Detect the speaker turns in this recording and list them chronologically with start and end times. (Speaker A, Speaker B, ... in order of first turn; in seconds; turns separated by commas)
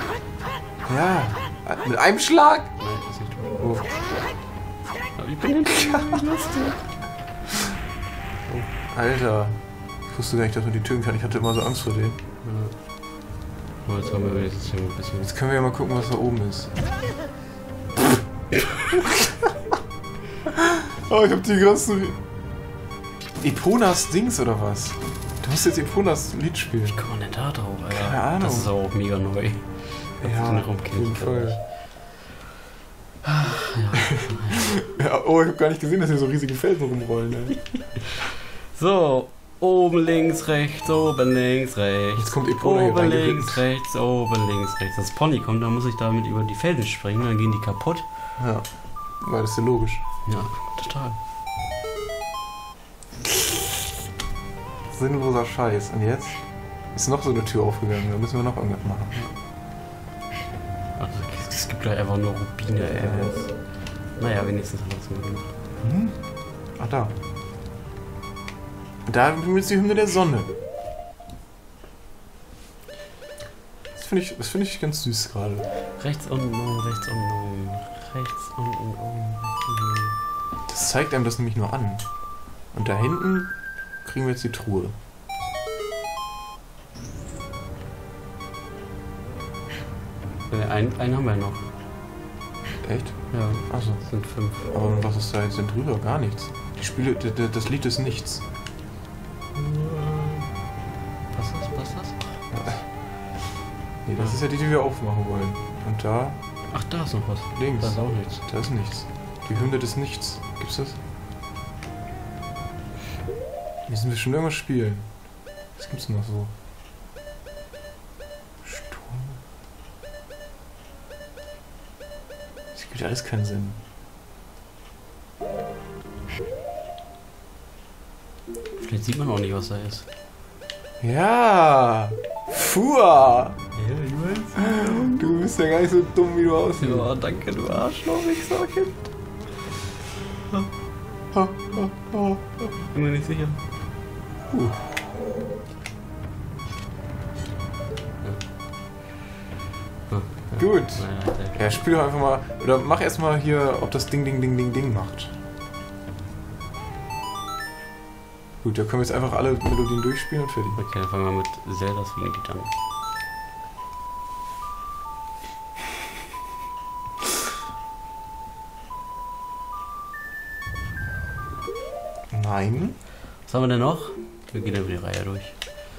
Speaker A: 0.9-2.8, Speaker B: 2.8-3.6, Speaker A: 3.6-3.9, Speaker B: 5.2-6.8, Speaker A: 5.7-6.2, Speaker A: 8.9-12.2, Speaker B: 12.4-12.8, Speaker B: 13.8-15.3, Speaker A: 15.2-16.8, Speaker A: 21.0-22.2, Speaker A: 23.4-27.0, Speaker B: 26.9-31.6, Speaker A: 27.9-28.7, Speaker A: 30.2-31.6, Speaker B: 33.2-34.7, Speaker A: 34.9-37.6, Speaker B: 38.0-48.1, Speaker A: 42.2-43.6, Speaker A: 48.4-50.1, Speaker B: 50.2-51.2, Speaker A: 54.9-59.2, Speaker B: 61.0-65.5, Speaker A: 62.8-63.4, Speaker A: 65.8-67.1, Speaker A: 69.1-70.5, Speaker A: 74.0-75.7, Speaker B: 76.0-80.2, Speaker A: 80.7-85.0, Speaker B: 90.5-91.7, Speaker A: 92.8-98.5, Speaker B: 93.3-94.7, Speaker B: 99.5-100.5, Speaker B: 101.3-102.4, Speaker A: 102.5-102.9, Speaker A: 104.1-106.4, Speaker B: 106.7-108.7, Speaker A: 107.6-111.0, Speaker A: 113.9-116.5, Speaker A: 118.6-119.4, Speaker A: 122.7-123.8, Speaker B: 128.8-130.1, Speaker A: 131.0-133.6, Speaker B: 133.8-135.4, Speaker A: 134.6-137.1, Speaker B: 136.8-139.1, Speaker A: 141.3-142.4, Speaker B: 142.8-143.6, Speaker A: 144.5-145.0, Speaker B: 150.1-151.8, Speaker A: 150.6-155.3, Speaker A: 158.6-160.8, Speaker B: 160.8-162.7, Speaker A: 172.3-173.0, Speaker B: 173.4-175.6